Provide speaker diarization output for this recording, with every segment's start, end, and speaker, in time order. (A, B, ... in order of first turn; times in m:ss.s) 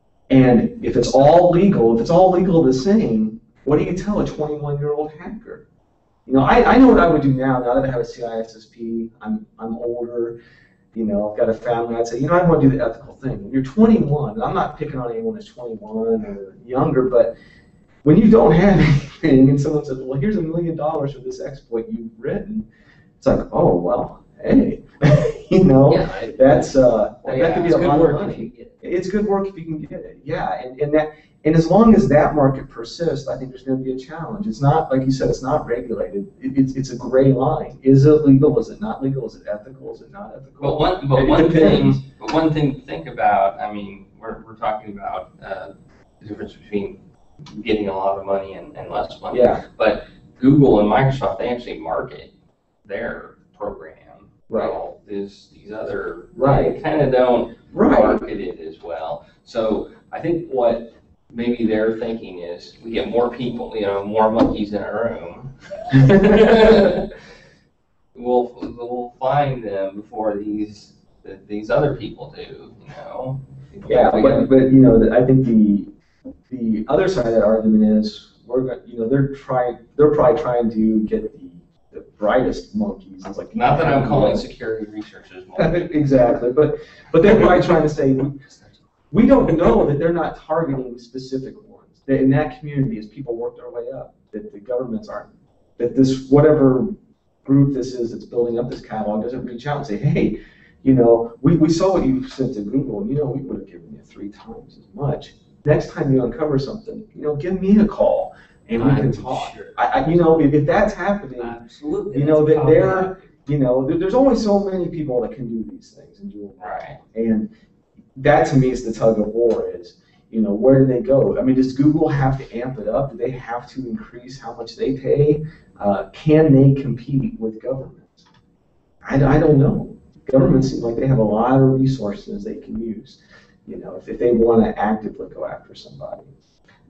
0:00.3-0:05.6 A
0:06.2-0:10.4 A
0:10.9-0:17.3 A
0:18.0-0:22.7 A
0:23.2-0:42.0 A
0:25.9-0:26.7 B
0:27.2-0:28.8 B
0:40.6-0:52.3 C
0:49.3-0:49.6 A
0:52.8-1:07.1 C
0:54.5-0:54.8 A
0:56.4-0:56.8 A
0:57.7-0:58.2 A
1:08.1-1:14.5 C
1:13.8-1:15.9 A
1:16.5-1:24.4 A
1:23.5-1:26.1 C
1:25.6-1:28.4 A
1:29.1-1:51.5 A
1:48.8-1:50.5 B
1:51.4-1:53.2 B
1:52.1-1:57.5 A
1:56.6-1:57.0 C
1:58.2-2:08.2 A
2:09.0-2:16.3 A